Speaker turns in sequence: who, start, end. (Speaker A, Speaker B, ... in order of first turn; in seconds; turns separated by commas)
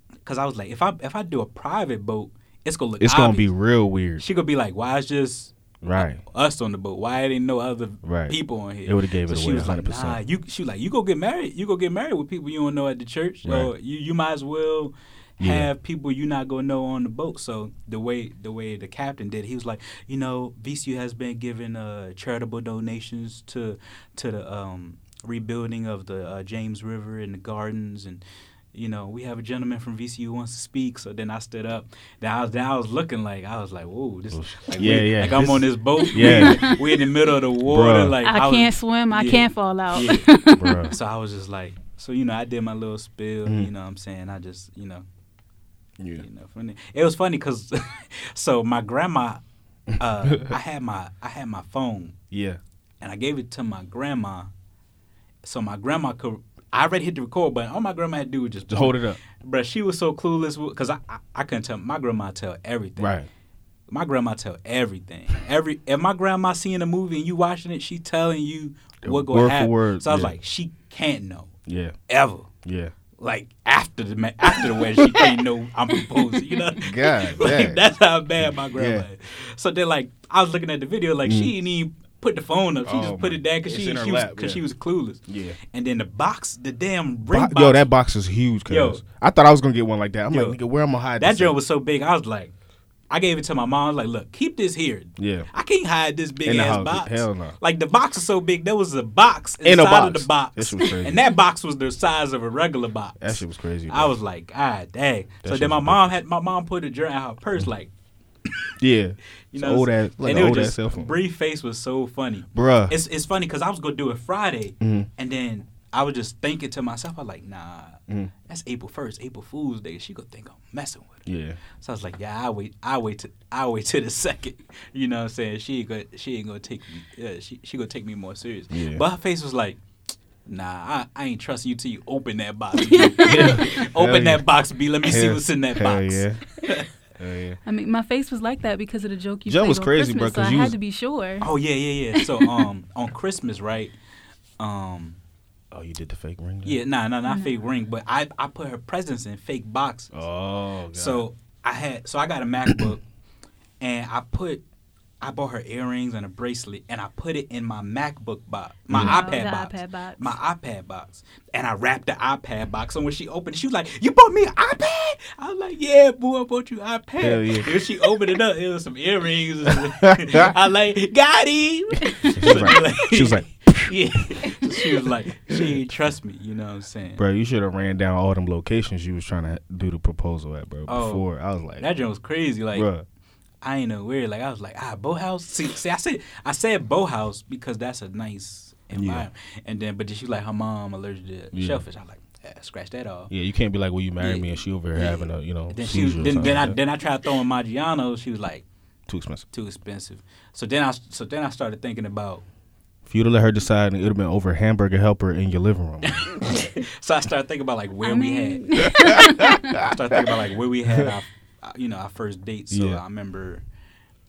Speaker A: 0.2-3.5, Speaker B: 3.0-4.2, Speaker A: 4.2-28.2, Speaker B: 5.8-6.2, Speaker B: 8.0-10.2, Speaker B: 13.4-13.7, Speaker B: 15.4-15.7, Speaker A: 28.7-40.2, Speaker B: 34.3-36.6, Speaker C: 36.0-37.0, Speaker B: 37.6-38.2, Speaker C: 38.2-40.9, Speaker B: 40.1-40.9, Speaker A: 40.9-45.1, Speaker B: 43.5-43.7, Speaker B: 46.0-46.3, Speaker A: 46.2-49.4, Speaker A: 50.0-52.2, Speaker B: 50.2-50.5, Speaker B: 52.3-52.6, Speaker A: 53.0-54.5, Speaker A: 55.4-63.1, Speaker B: 58.7-59.2, Speaker B: 63.0-63.3, Speaker A: 63.9-71.5, Speaker B: 69.0-70.3, Speaker B: 71.7-72.0, Speaker A: 72.1-72.5, Speaker B: 72.6-72.9, Speaker A: 73.2-87.9, Speaker B: 76.8-77.8, Speaker B: 78.4-79.1, Speaker B: 81.2-81.5, Speaker B: 82.8-84.7, Speaker B: 85.3-85.6, Speaker B: 87.3-91.6, Speaker A: 88.7-89.0, Speaker A: 90.3-90.6, Speaker A: 91.2-92.5, Speaker A: 93.1-107.9, Speaker B: 95.2-95.5, Speaker B: 96.5-97.6, Speaker B: 99.6-101.2, Speaker B: 103.2-104.2, Speaker B: 105.4-106.2, Speaker B: 108.8-111.1, Speaker A: 109.5-121.3, Speaker B: 112.5-113.0, Speaker B: 114.8-115.1, Speaker B: 121.3-121.6, Speaker A: 121.8-129.8, Speaker B: 128.7-129.1, Speaker A: 130.4-136.9, Speaker C: 132.9-133.8, Speaker B: 133.2-134.4, Speaker B: 135.0-136.4, Speaker B: 137.2-137.6, Speaker C: 137.7-141.5, Speaker B: 139.5-140.8, Speaker A: 141.4-143.9, Speaker C: 142.2-142.7, Speaker A: 144.6-145.2, Speaker B: 145.7-146.8, Speaker A: 146.7-150.1, Speaker C: 147.3-147.5, Speaker B: 150.1-151.2, Speaker A: 150.9-153.0, Speaker B: 152.7-152.9, Speaker A: 153.8-154.6, Speaker A: 155.2-177.2, Speaker B: 158.9-159.3, Speaker C: 159.0-160.4, Speaker B: 167.2-167.7, Speaker B: 170.1-170.5, Speaker B: 172.3-173.9, Speaker B: 175.5-175.8, Speaker B: 177.2-181.8, Speaker A: 180.9-181.3, Speaker A: 181.8-182.9, Speaker B: 182.7-183.1, Speaker A: 183.6-193.3, Speaker B: 188.9-189.3, Speaker B: 191.5-191.8, Speaker B: 193.3-196.8, Speaker A: 194.2-198.7, Speaker B: 199.1-199.5, Speaker A: 199.5-202.4, Speaker B: 203.1-206.3, Speaker A: 206.0-213.6, Speaker C: 208.0-209.9, Speaker B: 208.9-210.3, Speaker B: 210.8-211.1, Speaker B: 212.7-213.0